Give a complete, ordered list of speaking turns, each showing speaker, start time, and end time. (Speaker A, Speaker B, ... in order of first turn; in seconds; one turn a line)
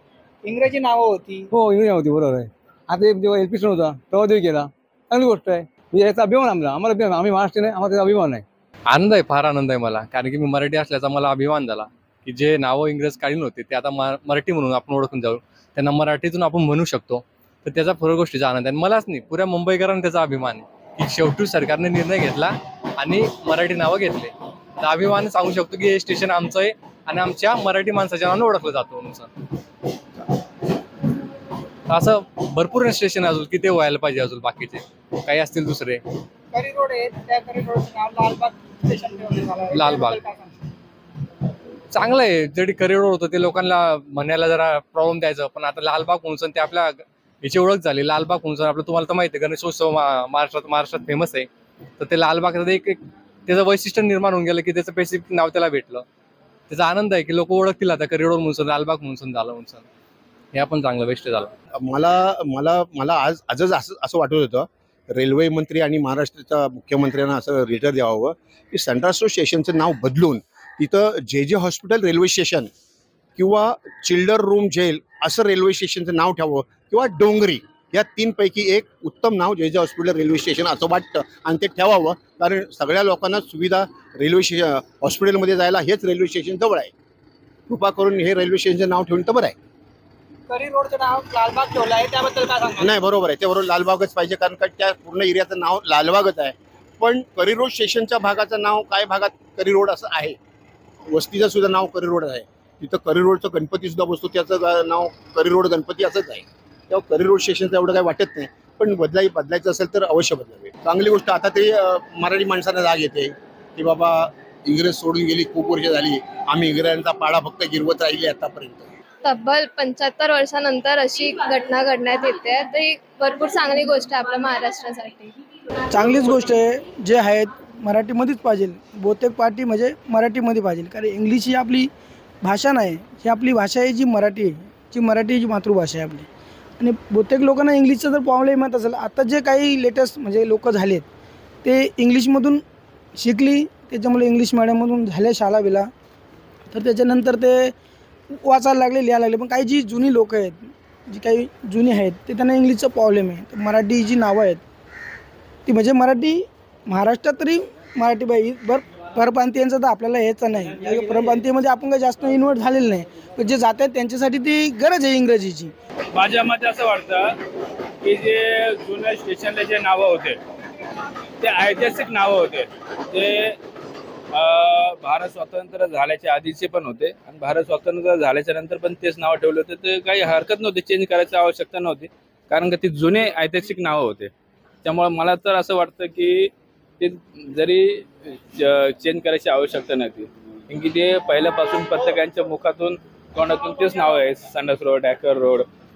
Speaker A: 0.4-1.5
Speaker B: 1.6-2.3
Speaker B: 3.1-3.5
Speaker B: 4.1-4.6
Speaker B: 5.2-5.5
Speaker B: 6.0-8.4
Speaker C: 8.9-29.3
Speaker C: 31.9-36.0
Speaker A: 36.5-40.6
Speaker C: 39.7-40.2
Speaker C: 41.9-51.5
Speaker C: 52.0-56.1
Speaker C: 56.7-59.9
Speaker C: 60.5-61.5
Speaker D: 63.0-64.6
Speaker D: 65.7-72.7
Speaker D: 73.5-77.6
Speaker D: 78.2-86.9
Speaker D: 88.2-88.6
Speaker A: 90.5-92.9
Speaker D: 93.5-96.5
Speaker D: 97.0-100.4
Speaker D: 101.3-106.4
Speaker D: 107.3-111.7
Speaker D: 112.2-113.3
Speaker D: 115.5-118.2
Speaker E: 119.5-125.0
Speaker F: 125.9-131.9
Speaker F: 132.4-136.3
Speaker F: 136.8-141.1
Speaker F: 141.6-142.6
Speaker F: 143.2-145.9
Speaker F: 146.7-147.7
Speaker F: 148.4-154.6
Speaker F: 155.7-165.7
Speaker G: 166.1-167.3
Speaker G: 168.0-170.4
Speaker G: 171.4-173.6
Speaker G: 174.3-184.3
Speaker G: 184.8-195.7